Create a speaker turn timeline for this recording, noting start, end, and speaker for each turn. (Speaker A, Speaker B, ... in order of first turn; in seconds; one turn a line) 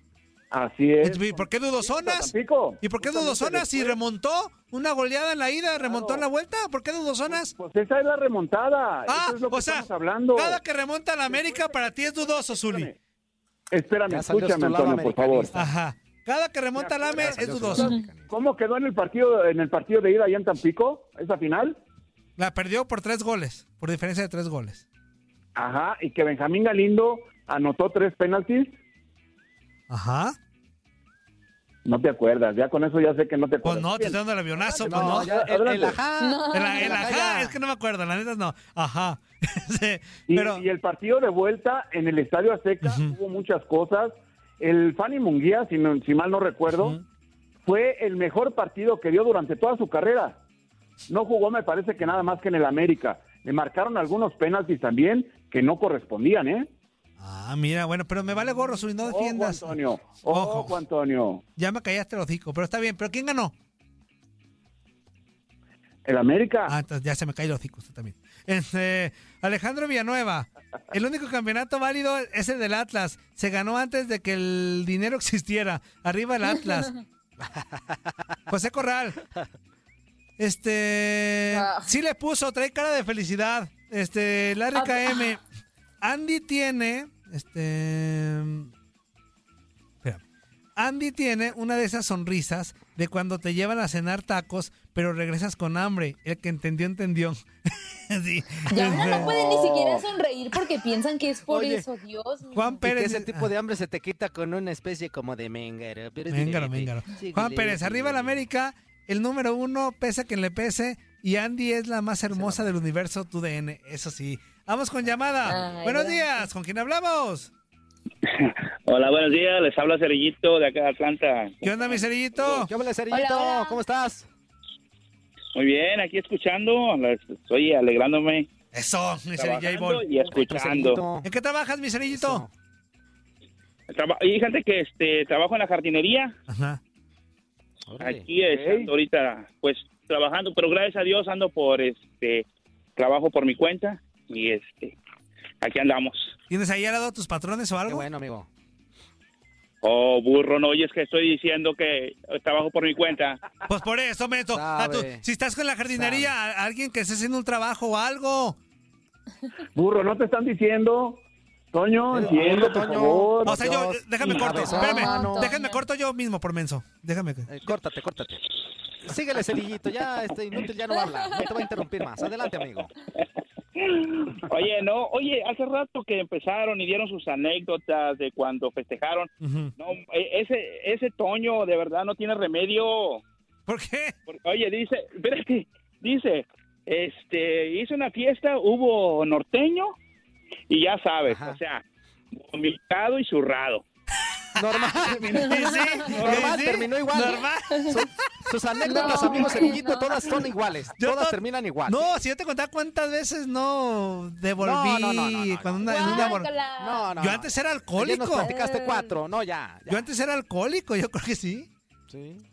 Speaker A: 0.5-4.0
Speaker B: 1.0-7.5
Speaker A: 5.7-6.2
Speaker A: 7.3-10.6
Speaker B: 9.1-12.9
Speaker A: 11.3-12.9
Speaker A: 13.7-15.5
Speaker C: 14.1-15.7
Speaker B: 15.5-17.9
Speaker A: 16.8-21.8
Speaker C: 17.1-18.3
Speaker B: 22.4-24.8
Speaker A: 25.6-28.7
Speaker B: 29.9-30.4
Speaker A: 31.8-36.0
Speaker B: 33.6-35.4
Speaker C: 34.8-37.6
Speaker D: 36.2-37.1
Speaker B: 36.5-40.6
Speaker A: 40.3-47.0
Speaker B: 42.8-43.1
Speaker B: 46.7-47.0
Speaker A: 47.6-50.4
Speaker A: 51.1-56.7
Speaker B: 57.2-60.8
Speaker A: 59.0-61.4
Speaker B: 61.6-63.5
Speaker A: 66.0-66.8
Speaker B: 66.7-77.0
Speaker C: 77.4-78.4
Speaker B: 78.5-79.2
Speaker B: 80.4-85.4
Speaker D: 81.5-81.9
Speaker D: 84.7-85.3
Speaker B: 86.0-88.7
Speaker B: 90.8-99.3
Speaker D: 98.7-102.8
Speaker A: 98.9-100.0
Speaker C: 101.5-101.8
Speaker B: 102.5-103.5
Speaker C: 102.8-108.4
Speaker B: 106.3-117.5
Speaker C: 112.3-112.7
Speaker D: 115.4-116.5
Speaker E: 118.2-122.0
Speaker B: 121.6-122.7
Speaker C: 122.4-124.3
Speaker D: 123.1-123.8
Speaker E: 125.5-128.5
Speaker B: 128.7-130.0
Speaker E: 129.4-131.0
Speaker C: 130.3-131.3
Speaker B: 131.2-132.4
Speaker C: 132.1-132.5
Speaker E: 133.9-136.3
Speaker B: 136.5-136.8
Speaker C: 137.9-138.3
Speaker E: 138.0-144.9
Speaker A: 138.4-138.9
Speaker E: 145.6-146.3
Speaker B: 146.5-148.1
Speaker C: 147.9-148.5
Speaker E: 149.8-153.4
Speaker B: 153.7-158.6
Speaker C: 154.5-155.2
Speaker C: 155.9-156.3
Speaker A: 159.7-163.6
Speaker C: 162.1-165.5
Speaker B: 163.4-167.7
Speaker D: 164.6-165.8
Speaker C: 167.5-168.4
Speaker C: 169.0-172.9
Speaker D: 171.0-171.4
Speaker E: 173.8-183.2
Speaker B: 179.4-179.7
Speaker B: 183.7-184.1
Speaker E: 184.3-189.9
Speaker E: 190.7-191.8
Speaker C: 191.2-191.6
Speaker E: 192.4-193.8
Speaker C: 194.6-202.2
Speaker B: 194.6-198.1
Speaker D: 195.6-196.0
Speaker E: 196.0-196.6
Speaker D: 198.8-200.4
Speaker B: 198.9-199.5
Speaker B: 201.0-206.5
Speaker C: 204.6-210.1
Speaker D: 205.8-207.2
Speaker B: 207.2-208.5
Speaker D: 208.3-209.1
Speaker B: 209.9-211.7
Speaker C: 212.1-212.4